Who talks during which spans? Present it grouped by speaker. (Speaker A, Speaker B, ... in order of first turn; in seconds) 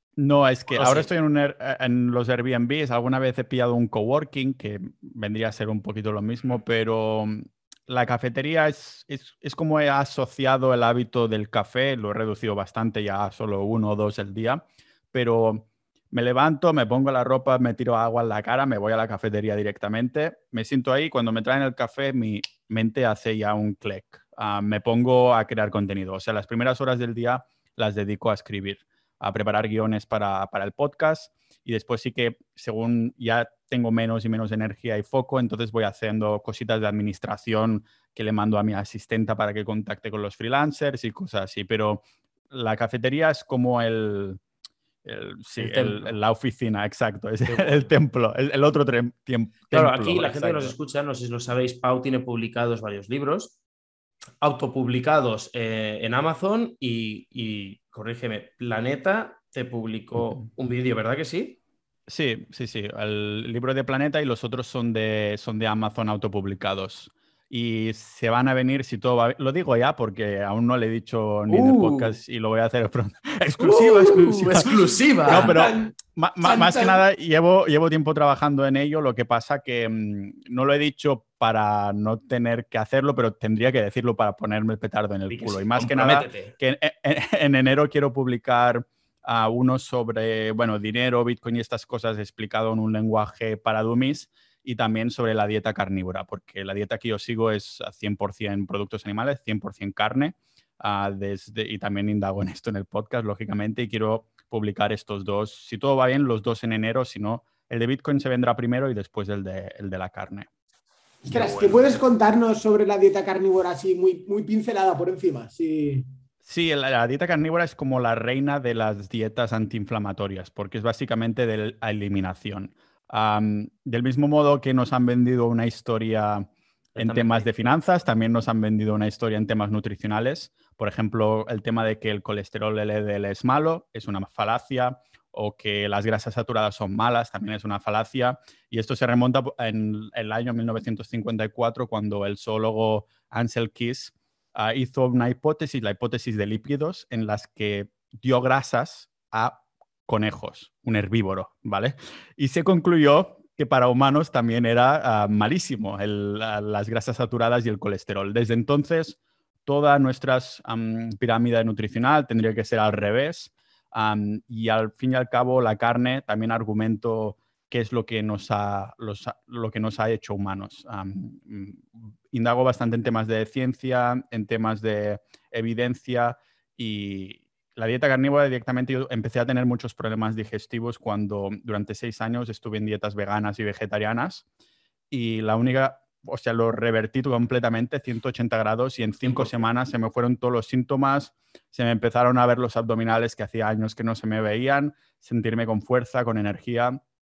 Speaker A: 0.2-44.4, 45.0-50.7, 60.2-60.5, 62.1-74.7, 75.3-110.5, 116.4-184.4, 185.1-197.0
Speaker B: 0.7-1.1, 45.6-46.2, 47.5-47.9, 49.7-53.5, 54.4-61.6, 71.5-72.2, 73.6-75.6, 85.3-86.5, 111.3-112.0, 126.9-127.7, 189.2-189.7
Speaker C: 75.2-77.0, 111.2-116.1